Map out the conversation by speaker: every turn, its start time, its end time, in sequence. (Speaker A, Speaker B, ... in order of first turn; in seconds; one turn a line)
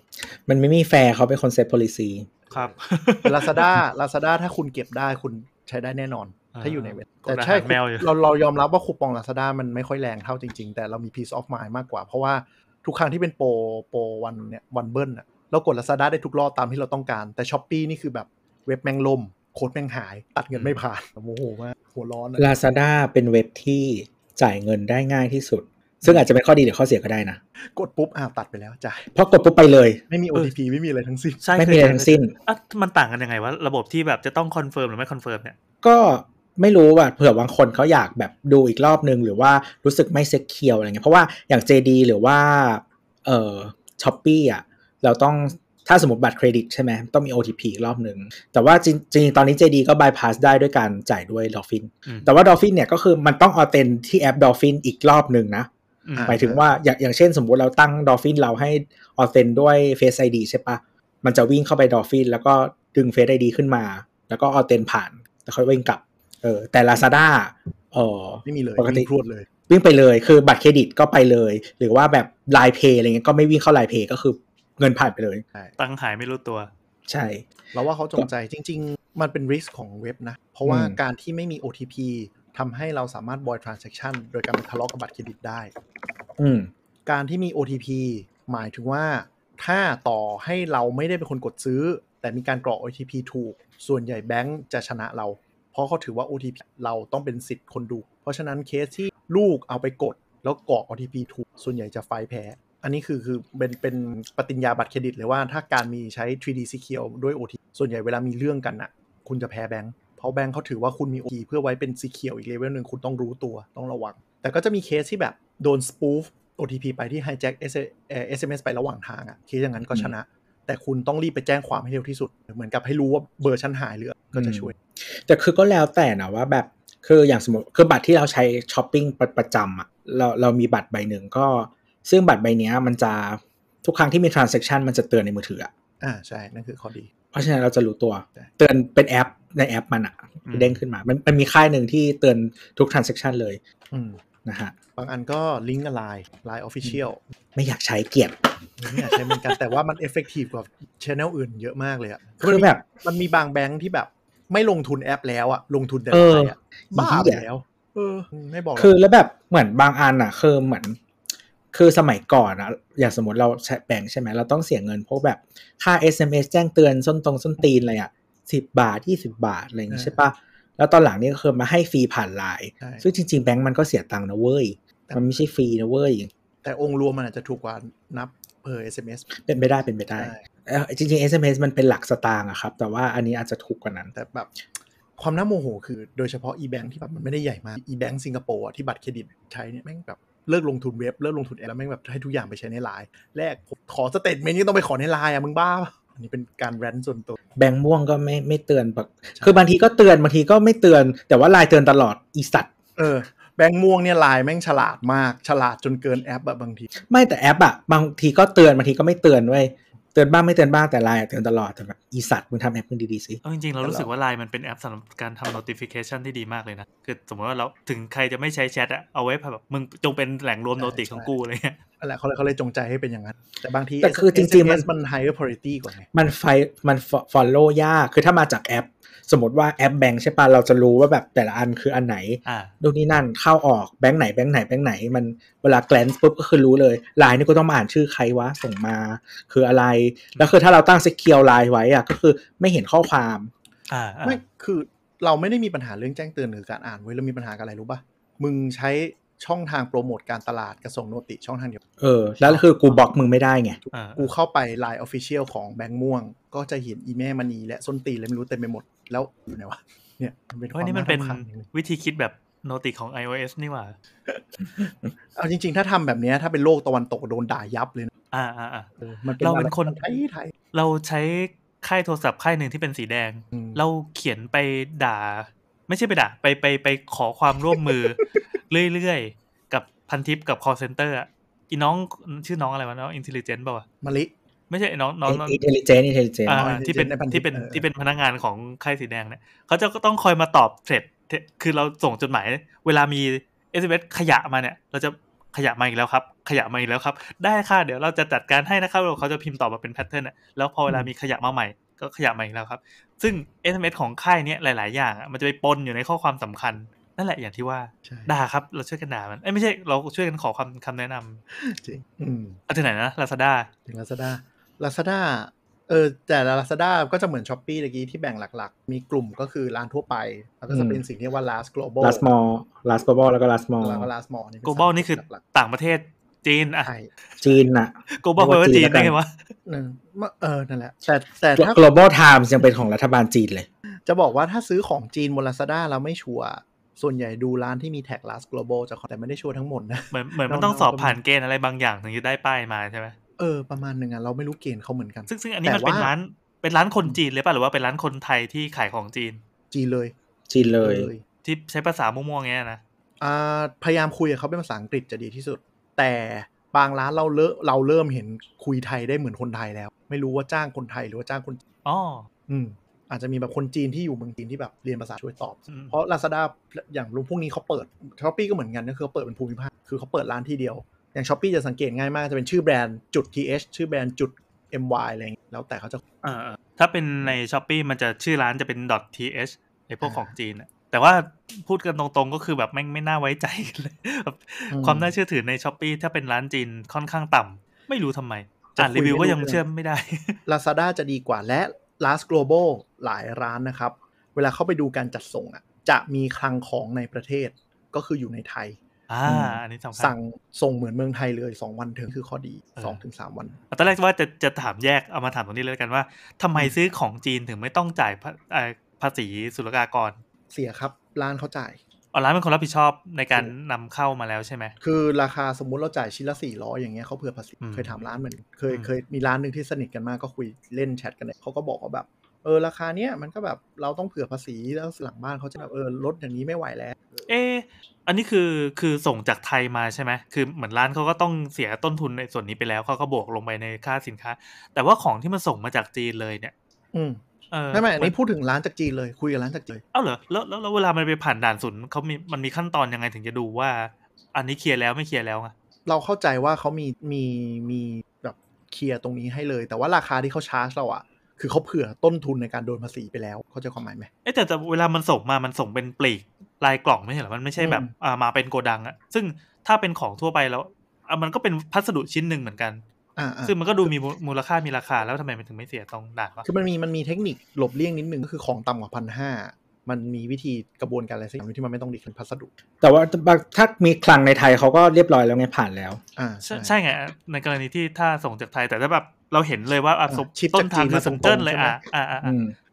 Speaker A: 0.3-2.3
Speaker B: 2.5-3.8
Speaker C: 3.2-22.5
Speaker B: 6.5-8.1
Speaker A: 22.4-27.4
Speaker C: 27.8-29.1
Speaker A: 29.1-30.0
Speaker C: 30.1-31.4
Speaker B: 31.4-35.6
Speaker A: 31.6-32.3
Speaker A: 35.8-55.7
Speaker B: 56.1-56.4
Speaker C: 56.2-56.6
Speaker A: 56.3-69.1
Speaker C: 68.5-69.5
Speaker A: 69.7-75.4
Speaker B: 75.8-76.7
Speaker A: 77.1-77.5
Speaker C: 77.7-85.7
Speaker A: 80.7-81.0
Speaker A: 86.4-86.7
Speaker C: 87.1-124.8
Speaker A: 124.3-135.7
Speaker C: 136.0-137.1
Speaker A: 137.3-143.6
Speaker B: 140.5-140.8
Speaker C: 143.9-144.2
Speaker A: 144.4-144.8
Speaker C: 145.0-147.2
Speaker A: 147.6-148.9
Speaker C: 148.8-158.9
Speaker A: 152.4-152.9
Speaker A: 156.1-157.4
Speaker A: 158.8-161.0
Speaker A: 161.7-176.3
Speaker C: 169.9-170.2
Speaker C: 175.1-175.4
Speaker C: 176.6-179.2
Speaker A: 179.4-184.1
Speaker C: 180.2-180.4
Speaker C: 184.1-184.5
Speaker C: 185.2-197.4
Speaker A: 197.6-202.7
Speaker C: 199.4-199.6
Speaker C: 203.0-206.9
Speaker A: 207.0-213.4
Speaker B: 213.4-221.8
Speaker C: 213.8-214.1
Speaker C: 220.8-221.3
Speaker C: 222.0-226.1
Speaker A: 224.0-224.9
Speaker A: 226.1-243.5
Speaker B: 232.5-232.7
Speaker B: 243.9-244.4
Speaker C: 244.2-251.8
Speaker A: 252.0-253.8
Speaker B: 253.9-254.3
Speaker C: 254.2-261.7
Speaker B: 260.8-264.0
Speaker C: 264.3-268.1
Speaker B: 268.3-270.0
Speaker C: 269.0-270.5
Speaker B: 270.7-283.9
Speaker C: 273.5-273.8
Speaker C: 284.0-284.3
Speaker B: 284.7-285.6
Speaker A: 285.3-286.7
Speaker B: 286.5-311.4
Speaker C: 286.6-287.9
Speaker C: 308.1-308.3
Speaker C: 311.5-312.6
Speaker B: 312.7-313.7
Speaker C: 313.9-322.2
Speaker A: 320.7-321.0
Speaker A: 322.0-324.1
Speaker C: 323.8-325.4
Speaker B: 324.6-326.9
Speaker C: 326.8-327.6
Speaker A: 327.4-329.2
Speaker B: 328.2-329.3
Speaker C: 329.7-331.8
Speaker A: 331.6-333.7
Speaker C: 334.1-341.2
Speaker B: 340.1-343.2
Speaker C: 343.4-346.1
Speaker B: 345.3-349.4
Speaker C: 349.7-351.2
Speaker A: 350.5-351.1
Speaker B: 351.4-352.8
Speaker C: 353.2-361.6
Speaker B: 361.9-362.3
Speaker C: 362.5-376.0
Speaker B: 376.2-390.4
Speaker C: 380.0-380.3
Speaker C: 384.7-385.1
Speaker C: 388.8-389.6
Speaker C: 390.5-403.6
Speaker B: 399.1-400.1
Speaker B: 403.7-410.2
Speaker C: 410.5-411.8
Speaker B: 412.1-414.8
Speaker C: 414.8-427.2
Speaker B: 417.6-418.0
Speaker B: 427.3-436.5
Speaker C: 436.9-437.2
Speaker B: 437.5-438.1
Speaker C: 437.7-439.8
Speaker B: 439.9-445.5
Speaker C: 445.9-454.1
Speaker B: 454.2-462.8
Speaker C: 457.6-457.9
Speaker C: 463.2-463.9
Speaker B: 463.5-466.5
Speaker C: 466.4-472.5
Speaker A: 472.8-476.0
Speaker C: 476.2-476.8
Speaker B: 476.4-482.4
Speaker C: 480.1-481.8
Speaker A: 482.2-482.6